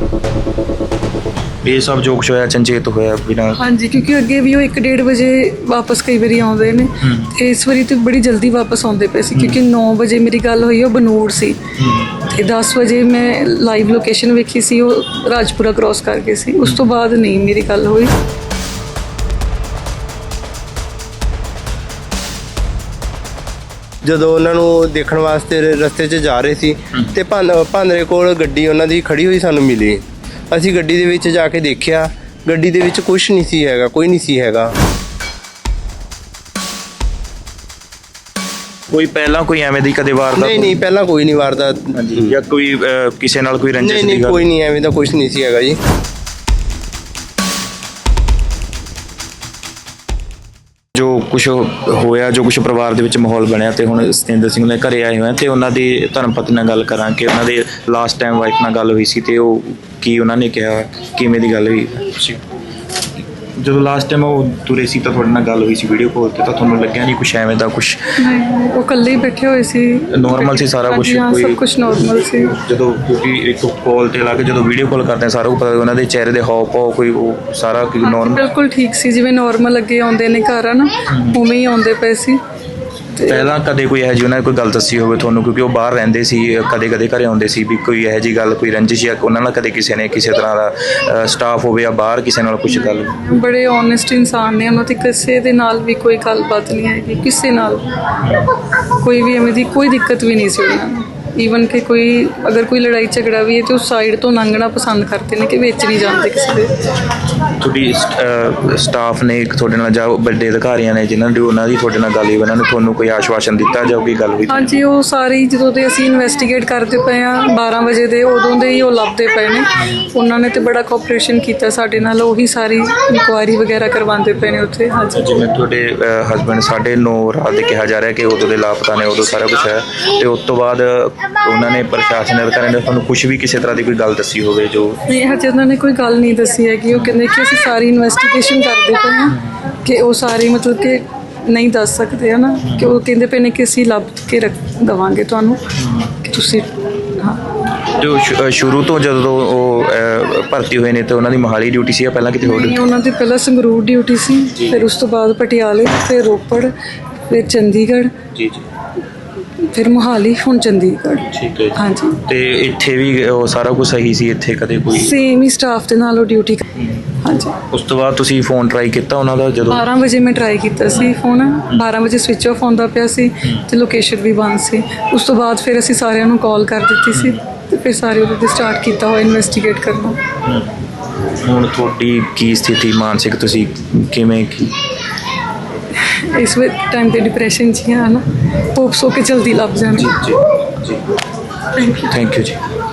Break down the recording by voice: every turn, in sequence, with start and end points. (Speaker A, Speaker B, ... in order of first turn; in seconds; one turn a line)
Speaker A: 1.6-3.6
Speaker B: 3.6-11.6
Speaker A: 7.0-7.3
Speaker A: 9.3-9.6
Speaker A: 11.8-12.1
Speaker B: 12.1-18.1
Speaker A: 16.6-16.9
Speaker C: 24.0-34.7
Speaker A: 38.9-40.8
Speaker C: 40.4-42.3
Speaker A: 41.9-44.4
Speaker C: 43.8-45.8
Speaker A: 50.9-62.4
Speaker A: 63.6-68.1
Speaker B: 68.2-72.5
Speaker A: 70.1-71.6
Speaker A: 72.5-78.4
Speaker B: 78.0-82.4
Speaker A: 81.1-81.4
Speaker A: 83.1-93.1
Speaker B: 83.2-83.5
Speaker B: 92.7-97.9
Speaker A: 98.2-98.5
Speaker B: 98.8-106.7
Speaker A: 107.6-114.8
Speaker B: 114.5-125.4
Speaker A: 119.8-120.0
Speaker A: 125.1-135.1
Speaker B: 135.1-147.5
Speaker A: 136.9-137.2
Speaker A: 139.3-139.5
Speaker A: 142.6-142.9
Speaker A: 145.8-146.1
Speaker A: 147.9-152.8
Speaker B: 152.4-156.7
Speaker A: 154.5-154.8
Speaker B: 157.3-158.1
Speaker A: 158.3-158.6
Speaker B: 159.6-162.2
Speaker A: 161.2-165.1
Speaker B: 164.9-167.6
Speaker A: 166.8-167.1
Speaker A: 167.7-169.8
Speaker B: 169.7-180.2
Speaker A: 177.1-177.4
Speaker A: 180.4-180.7
Speaker A: 181.4-184.7
Speaker B: 185.9-190.3
Speaker A: 189.9-191.0
Speaker B: 191.8-192.2
Speaker A: 191.9-192.6